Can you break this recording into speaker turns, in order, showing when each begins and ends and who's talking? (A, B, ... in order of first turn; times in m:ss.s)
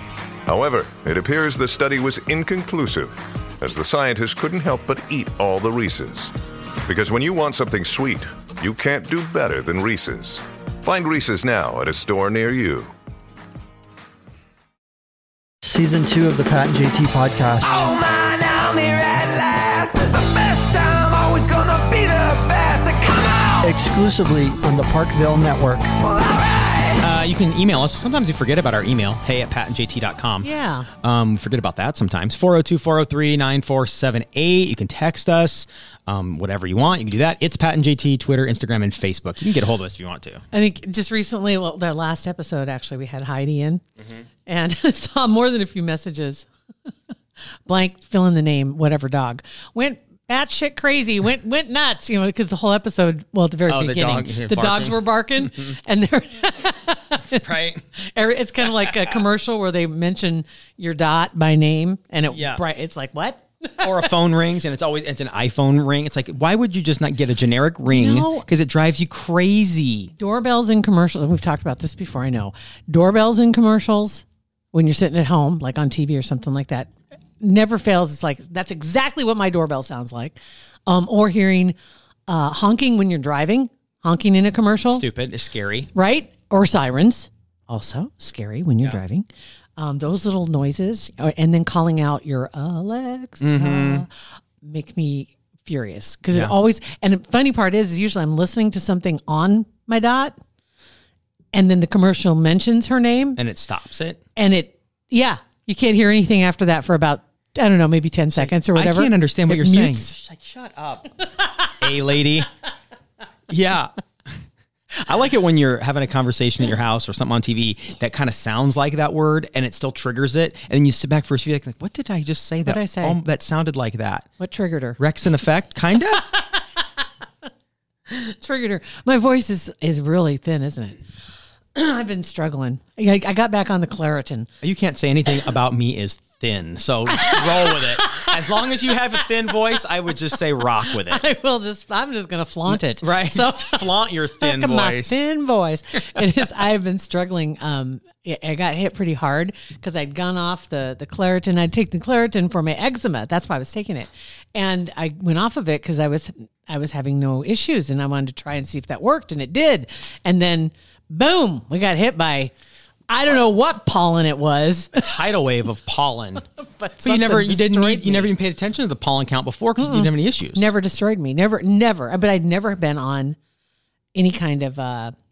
0:00.5-0:06.3 A
0:06.9-0:12.9 A
0:15.6-0:17.9 B
0:17.7-0:23.6 C
0:23.6-0:26.0 B
0:26.1-0:27.0 C
0:27.0-0:30.5 D
0:30.4-0:30.9 E
0:31.0-0:40.4 D
0:40.5-0:43.8 E
0:44.5-0:46.5 E
0:47.7-0:57.4 E
0:53.7-0:55.7 D
0:57.3-0:57.8 D
0:58.0-1:04.0 E
0:58.7-0:59.1 D
1:02.3-1:02.6 D
1:03.8-1:10.1 D
1:07.8-1:08.4 E
1:10.2-1:21.8 E
1:22.3-1:25.0 E
1:24.9-1:25.9 D
1:25.9-1:29.3 E
1:29.8-1:34.1 E
1:33.4-1:34.1 D
1:34.6-1:40.4 E
1:41.5-1:43.4 E
1:43.4-1:44.2 D
1:44.4-1:50.2 E
1:48.3-1:51.2 D
1:51.8-1:52.5 D
1:53.5-1:53.9 D
1:55.0-2:04.3 D
2:02.6-2:03.2 E
2:04.4-2:05.0 E
2:05.0-2:06.3 D
2:06.1-2:07.0 E
2:08.1-2:11.0 E
2:11.7-2:14.5 E
2:14.6-2:21.2 D
2:17.1-2:18.7 E
2:20.9-2:42.5 E
2:22.7-2:25.2 D
2:43.1-2:45.0 E
2:44.9-2:46.5 D
2:46.6-2:48.3 E
2:47.0-2:50.7 D
2:49.8-2:53.4 E
2:54.2-2:55.1 E